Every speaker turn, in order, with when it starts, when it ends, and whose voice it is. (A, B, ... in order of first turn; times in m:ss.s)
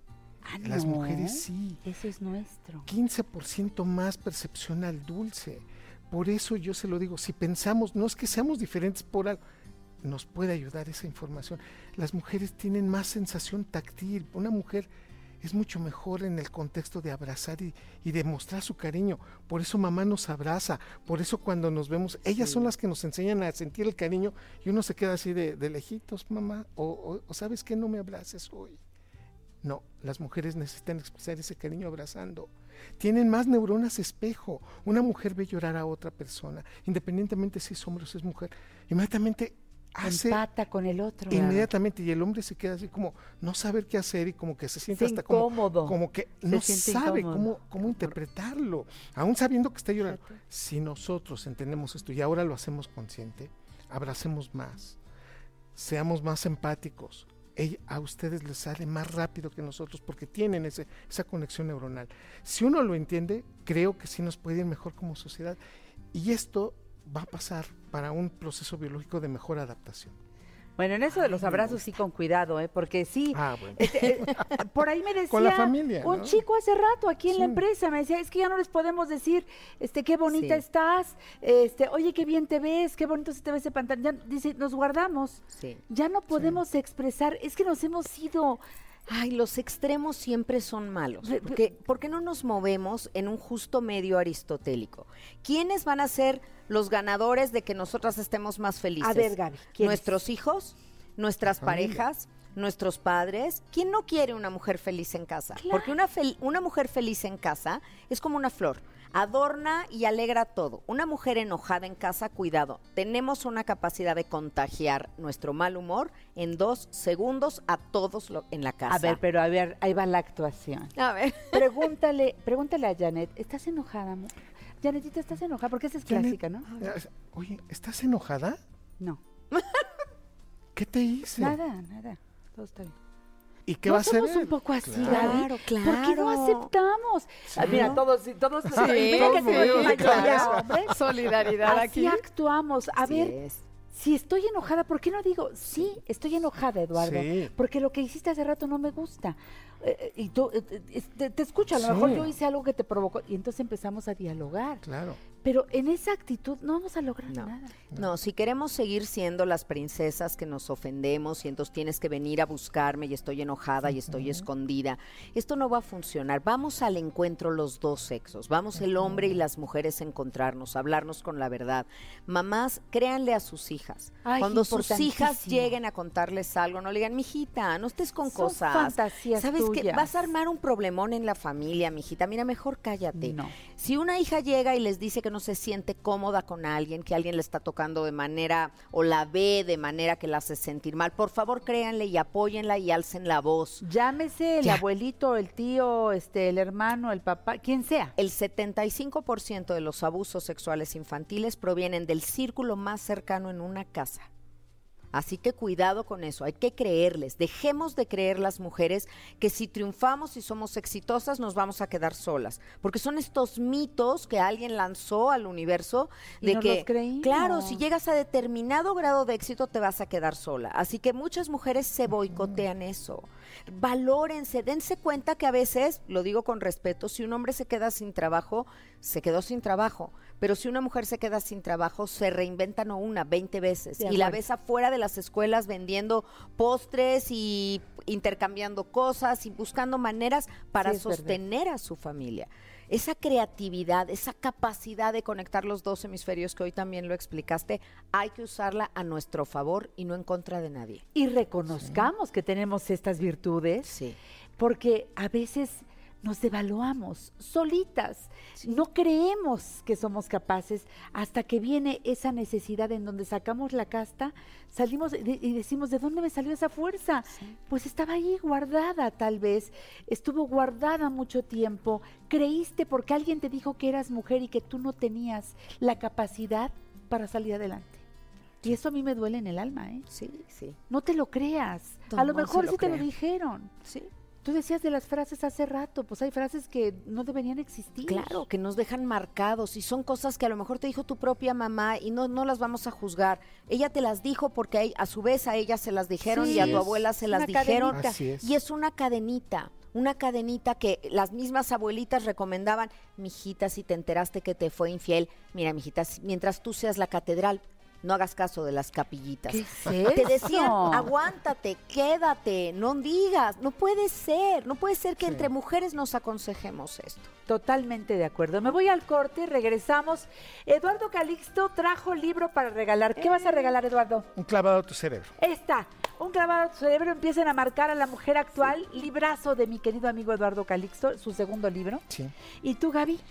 0:00.4-0:02.9 A
0:00.6-0:01.8 B
0:02.8-0:09.4 B
0:10.0-0:14.9 B
0:15.4-0:28.8 B
0:22.4-0:22.7 C
0:29.6-0:40.4 B
0:40.0-0:41.7 A
0:41.3-0:55.0 B
0:44.9-0:46.0 A
0:46.5-0:47.5 A
0:55.7-1:05.6 B
1:06.1-1:10.2 B
1:10.8-1:28.6 A
1:11.3-1:11.8 B
1:13.3-1:14.5 B
1:15.3-1:16.4 B
1:17.3-1:17.6 B
1:20.3-1:20.6 C
1:25.6-1:25.8 C
1:29.1-1:59.2 C
1:31.2-1:31.6 A
1:39.0-1:40.1 A
1:41.6-1:42.0 B
1:45.6-1:45.9 A
1:58.9-2:00.9 A
2:01.0-2:01.8 C
2:01.5-2:06.6 A
2:06.0-2:08.6 B
2:10.7-2:11.6 B
2:11.4-2:12.9 A
2:13.6-2:15.4 B
2:13.8-2:21.0 A
2:15.0-2:16.7 C
2:17.5-2:18.0 B
2:17.6-2:18.0 C
2:18.7-2:21.2 B
2:18.7-2:22.2 C
2:21.6-2:23.3 A
2:23.0-2:23.6 C
2:23.9-2:34.8 A
2:26.9-2:27.5 B
2:31.7-2:32.3 B
2:34.8-2:35.2 B
2:35.4-2:37.7 A
2:37.3-3:13.8 C
2:44.1-2:44.4 B
2:54.2-2:55.7 A
2:58.2-3:00.3 A
3:03.1-3:03.5 A
3:13.8-3:18.1 A
3:18.2-3:24.3 C
3:25.1-4:11.0 C
3:36.4-3:37.8 A
3:42.3-3:42.6 B
3:54.0-3:54.4 A
4:00.8-4:01.4 A
4:11.1-4:13.9 A
4:13.8-4:14.2 C
4:14.6-4:38.0 A
4:38.6-4:40.0 A
4:40.1-4:40.8 C
4:40.9-4:43.7 A
4:42.1-4:43.0 C
4:44.4-4:48.4 A
4:48.1-5:17.3 C
4:56.3-4:58.2 A
4:56.4-4:56.9 B
4:57.9-4:58.5 B
5:09.5-5:11.1 A
5:15.2-5:15.5 B
5:17.5-5:24.3 A
5:23.2-5:23.7 C
5:24.4-5:25.3 B
5:25.4-5:32.0 A
5:32.6-5:33.2 A